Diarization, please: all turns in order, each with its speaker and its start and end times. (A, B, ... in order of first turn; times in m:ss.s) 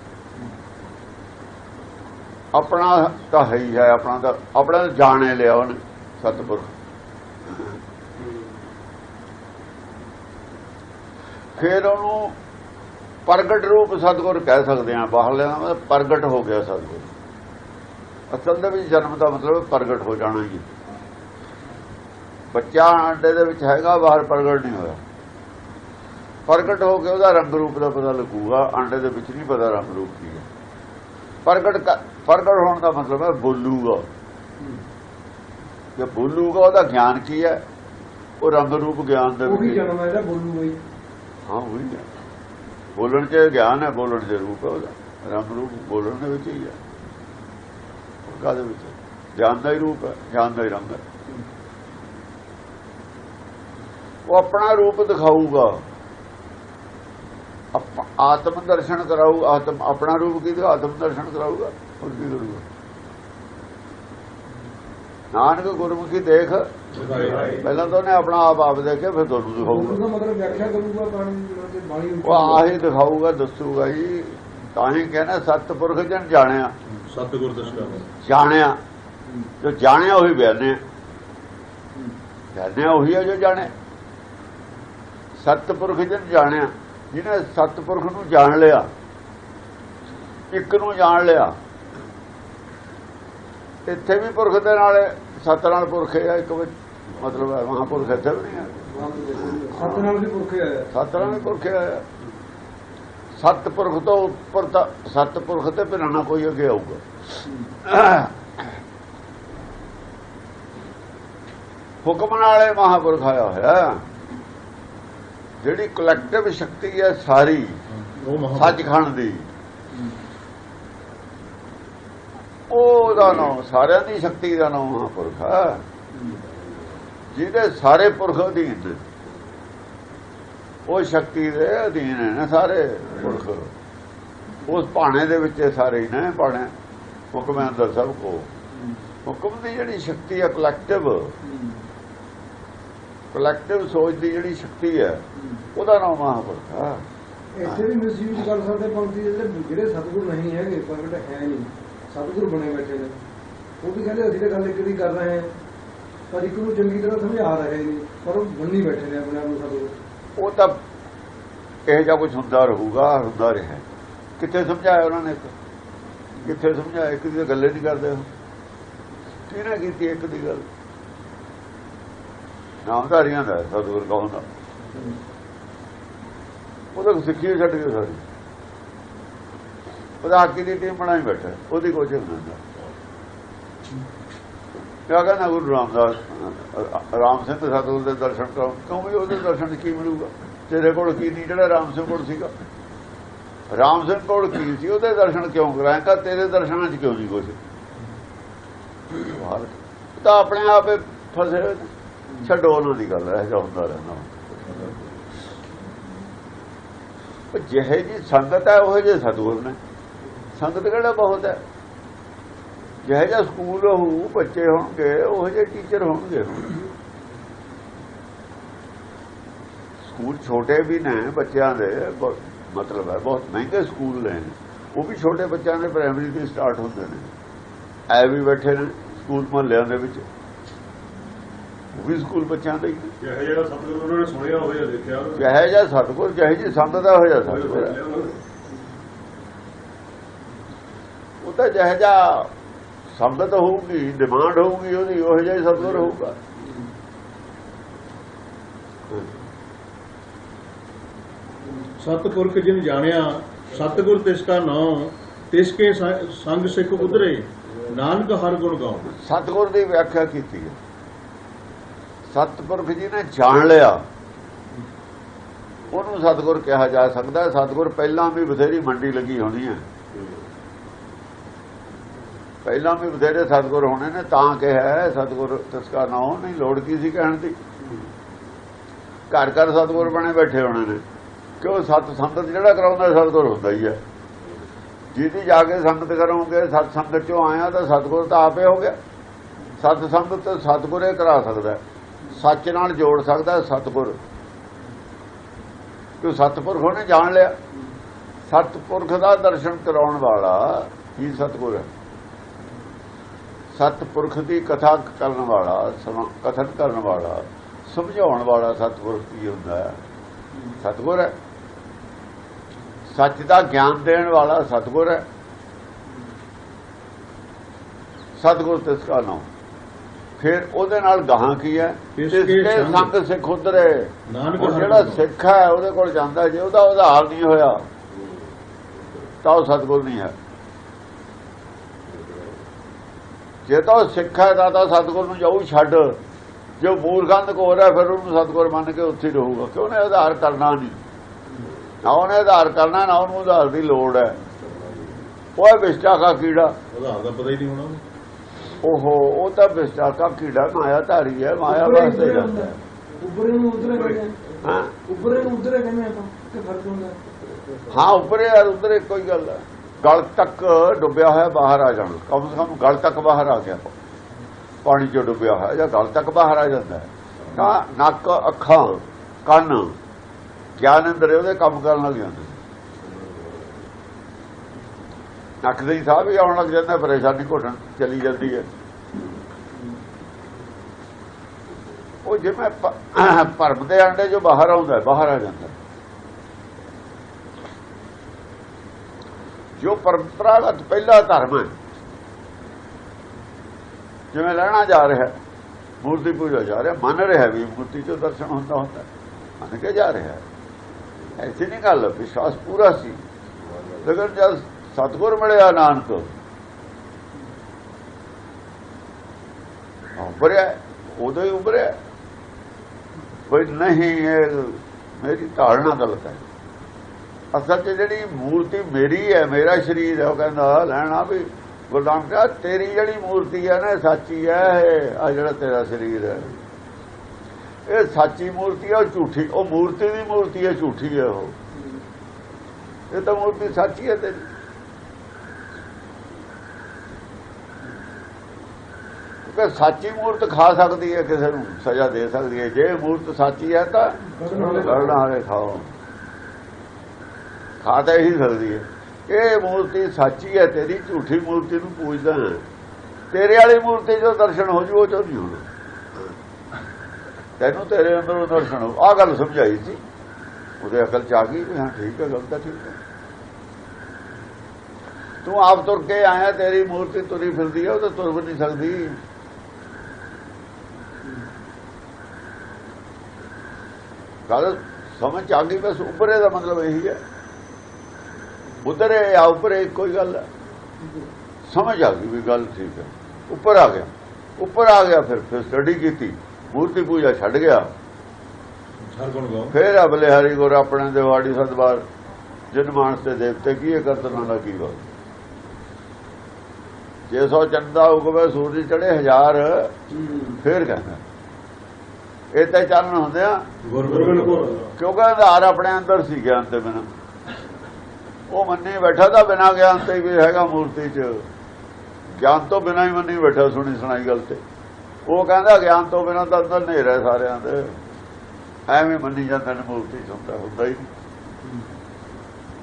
0:02.5-0:06.7 A
0:11.6-0:12.4 A
0:13.2-0:17.1 A
0:18.3-0:20.6 A
0:22.5-0:25.0 A
0:26.5-0:30.4 A
0:31.4-0:34.0 A
0:36.0-0:37.6 A
0:38.4-0:39.8 A
0:39.4-0:40.8 B
0:41.5-0:42.1 A
0:43.0-0:46.8 A
0:48.2-0:51.0 A
0:54.2-0:55.8 A
0:57.7-1:02.6 A
1:05.3-1:10.0 A
1:07.0-1:07.6 C
1:09.6-1:12.7 B
1:12.2-1:16.7 A
1:17.0-1:18.0 C
1:18.2-1:18.8 A
1:19.6-1:20.8 A
1:22.5-1:23.7 A
1:25.4-1:28.9 A
1:30.5-1:31.6 A
1:33.8-1:38.8 A
1:38.8-1:40.9 B
1:39.7-1:40.1 A
1:40.9-1:42.0 A
1:43.4-1:47.0 A
1:47.8-1:48.3 A
1:52.0-1:54.0 A
1:55.6-1:57.8 A
1:58.1-1:58.8 C
1:58.5-1:59.5 A
2:02.7-2:05.8 A
2:07.3-2:09.0 A
2:10.9-2:13.7 A
2:14.6-2:16.7 A
2:17.3-2:18.5 A
2:19.2-2:21.3 A
2:21.4-2:21.8 B
2:23.3-2:25.2 A
2:25.7-2:27.0 A
2:27.5-2:33.2 B
2:33.8-2:35.5 B
2:36.3-2:40.0 B
2:40.4-2:40.8 A
2:41.9-2:43.8 A
2:44.4-2:45.5 A
2:46.4-2:48.3 A
2:49.5-2:50.6 A
2:52.8-2:54.4 A
2:56.9-2:58.2 A
3:00.2-3:02.6 A
3:05.1-3:12.5 A
3:13.7-3:17.6 A
3:19.1-3:21.9 A
3:22.4-3:24.9 A
3:27.5-3:29.8 A
3:30.5-3:31.6 A
3:33.0-3:36.8 A
3:40.0-3:47.3 A
3:48.1-3:50.2 A
3:51.9-3:53.1 A
3:53.2-3:55.4 C
3:55.3-3:58.0 A
3:57.6-3:58.3 C
4:01.4-4:02.5 A
4:03.1-4:06.4 A
4:12.0-4:19.1 C
4:19.1-4:20.8 A
4:22.3-4:24.0 A
4:25.9-4:29.8 A
4:32.6-4:37.6 A
4:39.3-4:41.0 A
4:41.6-4:44.0 A
4:45.1-4:49.0 A
4:49.8-4:51.8 A
4:52.3-4:54.2 A
4:56.2-4:57.6 A
4:58.4-5:01.9 A
5:03.7-5:10.0 A
5:10.8-5:11.3 A
5:13.1-5:15.2 A
5:18.4-5:19.4 A
5:20.4-5:27.8 A
5:22.2-5:23.1 C
5:24.3-5:25.2 C
5:29.4-5:30.3 A
5:33.6-5:36.2 A
5:36.8-5:41.0 A
5:42.0-5:44.4 A
5:45.6-5:46.7 A
5:46.9-5:48.0 C
5:48.8-5:52.8 A
5:51.6-5:54.4 B
5:54.6-5:54.9 A
5:55.1-5:57.2 B
5:57.9-6:03.9 A
6:04.8-6:09.9 A
6:10.8-6:12.6 A
6:15.6-6:18.7 A
6:22.2-6:25.7 A
6:29.8-6:31.7 A
6:34.3-6:35.3 A
6:36.0-6:39.1 A
6:39.6-6:40.4 A
6:41.3-6:43.2 A
6:44.0-6:46.3 A
6:50.2-6:52.0 A
6:53.5-6:56.4 A
6:57.5-7:06.5 A
7:07.9-7:11.5 A
7:13.1-7:14.4 A
7:19.4-7:25.9 A
7:24.4-7:25.2 B
7:27.8-7:32.6 A
7:33.3-7:35.6 A
7:37.6-7:40.0 A
7:40.8-7:43.0 A
7:45.4-7:49.2 A
7:54.5-7:57.2 A
7:58.8-8:00.4 A
8:01.7-8:07.9 A
8:09.1-8:09.7 C
8:09.7-8:12.0 A
8:12.7-8:15.0 A
8:17.3-8:19.9 A
8:20.4-8:21.2 A
8:22.5-8:23.6 A
8:23.8-8:24.9 C
8:24.9-8:27.0 A
8:28.5-8:31.4 A
8:32.3-8:34.6 A
8:35.2-8:37.9 A
8:38.9-8:41.1 A